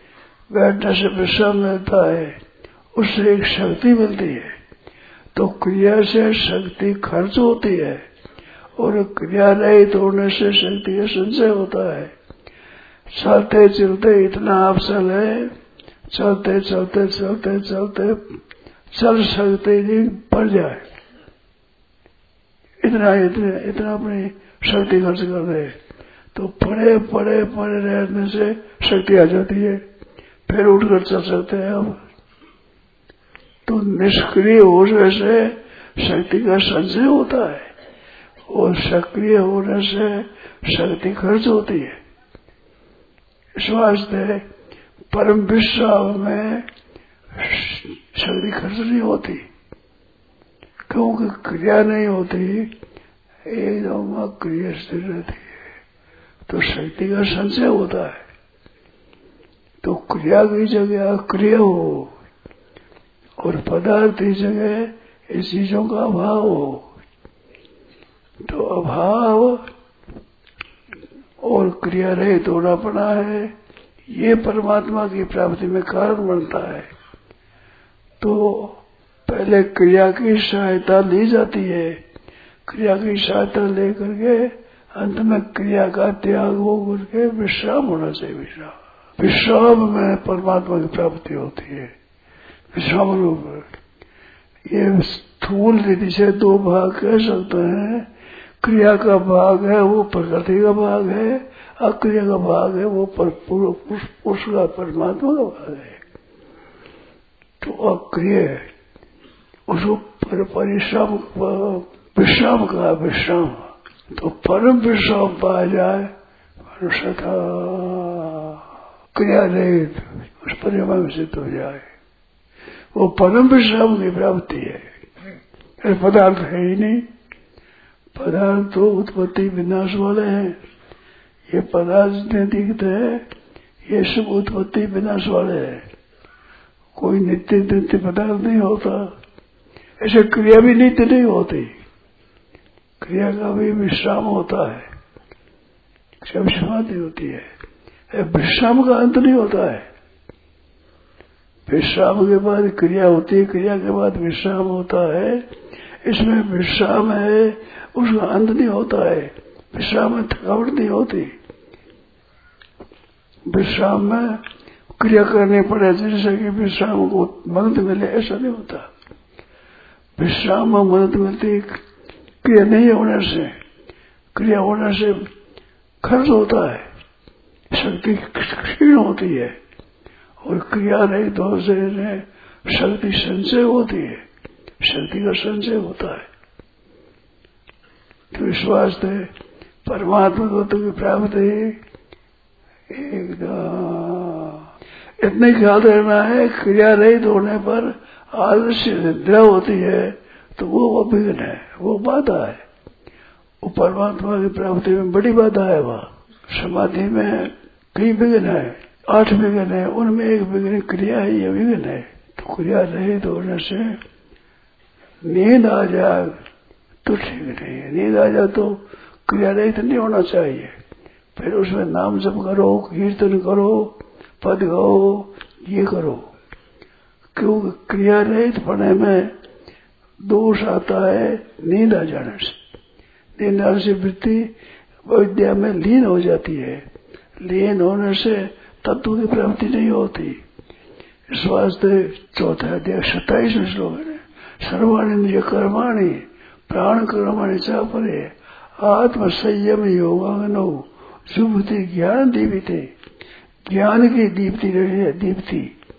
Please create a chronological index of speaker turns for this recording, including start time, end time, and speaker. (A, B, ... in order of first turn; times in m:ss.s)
0:00.5-0:02.4 A
0:02.9-0:04.5 A
0:05.3-0:08.0 A
0:08.8-0:12.1 A
0:13.1-0:15.5 A
0:16.1-0:18.2 A
0:18.9-0:20.8 A
0:22.8-0:25.7 A
0:26.3-0:29.8 A
0:30.5-0:32.0 A
0:33.7-0:37.7 A
0:38.5-0:41.9 A
0:43.6-0:44.4 A
0:45.1-0:46.7 A
0:47.3-0:49.4 A
0:50.9-0:52.7 A
0:53.4-0:55.5 A
0:56.5-0:58.2 A
0:59.8-1:02.1 A
1:03.4-1:06.9 A
1:08.4-1:09.6 A
1:11.4-1:13.5 A
1:14.1-1:16.9 A
1:18.2-1:22.0 A
1:22.6-1:31.9 A
1:32.7-1:33.7 A
1:34.7-1:38.1 A
1:38.6-1:46.0 A
1:47.6-1:48.6 A
1:49.7-1:56.1 A
1:56.7-1:58.6 A
1:59.1-2:01.8 A
2:02.9-2:04.9 A
2:05.8-2:07.1 A
2:08.1-2:10.6 A
2:11.5-2:13.2 A
2:13.9-2:15.8 A
2:17.0-2:19.1 A
2:20.0-2:21.7 A
2:23.0-2:24.8 A
2:26.2-2:27.4 A
2:28.1-2:29.8 A
2:31.7-2:35.4 A
2:36.0-2:41.3 A
2:43.5-2:44.4 A
2:45.0-2:48.9 A
2:50.2-2:51.8 A
2:52.4-2:53.5 A
2:54.3-2:55.2 A
2:56.0-2:56.8 A
2:57.7-2:59.6 A
3:00.4-3:04.2 A
3:04.8-3:06.3 A
3:08.3-3:09.3 A
3:09.8-3:11.8 A
3:12.9-3:14.6 A
3:15.2-3:22.6 A
3:23.6-3:34.0 A
3:35.2-3:36.4 A
3:37.0-3:40.7 A
3:41.4-3:46.3 A
3:47.4-3:49.3 A
3:50.2-3:52.6 A
3:53.4-3:54.5 A
3:55.0-3:56.8 A
3:57.4-4:00.4 A
4:01.3-4:12.9 A
4:13.7-4:15.7 A